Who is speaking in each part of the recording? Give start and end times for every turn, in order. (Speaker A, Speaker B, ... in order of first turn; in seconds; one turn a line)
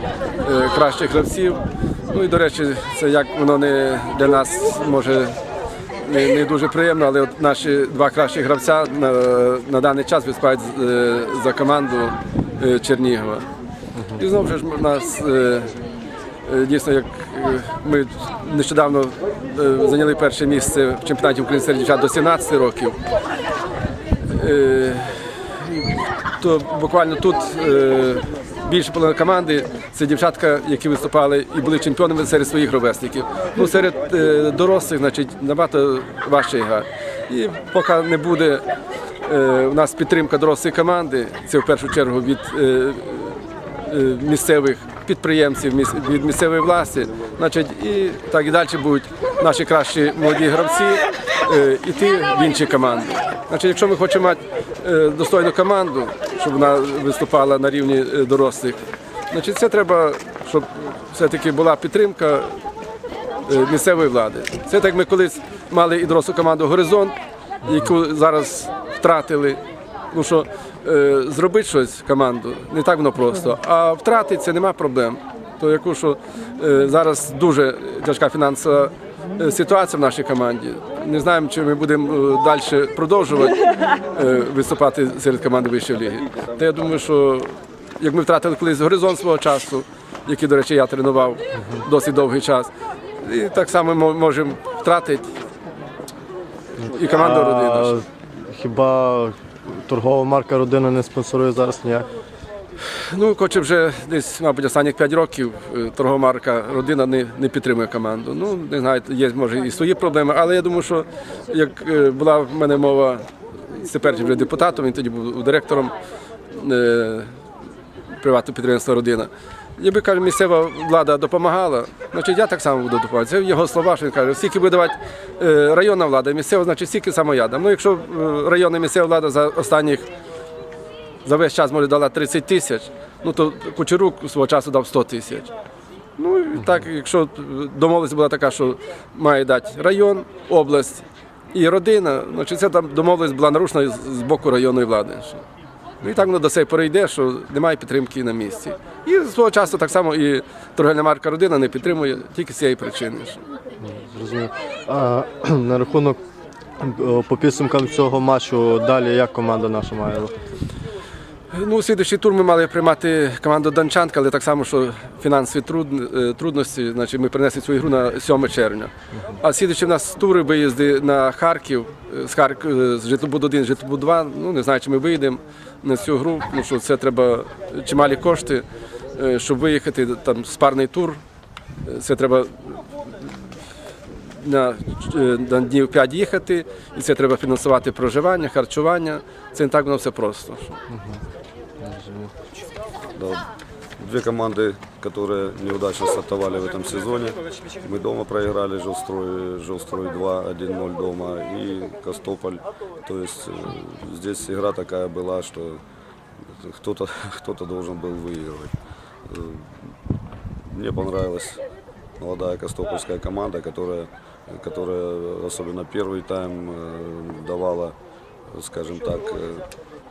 Speaker A: 0.4-5.4
Speaker A: 6.0-13.5
Speaker B: 14.0-14.2
Speaker A: 14.1-15.8
Speaker A: 16.4-23.0
Speaker A: 24.2-38.6
Speaker A: 39.2-62.6
Speaker A: 63.5-92.7
Speaker B: 91.6-91.8
Speaker A: 93.2-95.3
Speaker A: 96.8-98.0
Speaker B: 97.0-102.1
Speaker A: 102.9-116.0
Speaker A: 116.5-117.3
Speaker A: 118.1-130.1
Speaker A: 131.2-135.5
Speaker A: 136.2-145.4
Speaker A: 146.0-153.4
Speaker B: 153.8-156.2
Speaker B: 156.8-160.4
Speaker A: 161.5-181.2
Speaker A: 181.8-183.5
Speaker A: 184.2-190.8
Speaker B: 190.9-191.2
Speaker B: 191.8-192.3
Speaker C: 193.2-193.4
Speaker C: 194.0-205.8
Speaker C: 206.4-208.7
Speaker C: 209.3-209.9
Speaker C: 210.7-211.6
Speaker C: 212.2-217.9
Speaker C: 218.5-219.7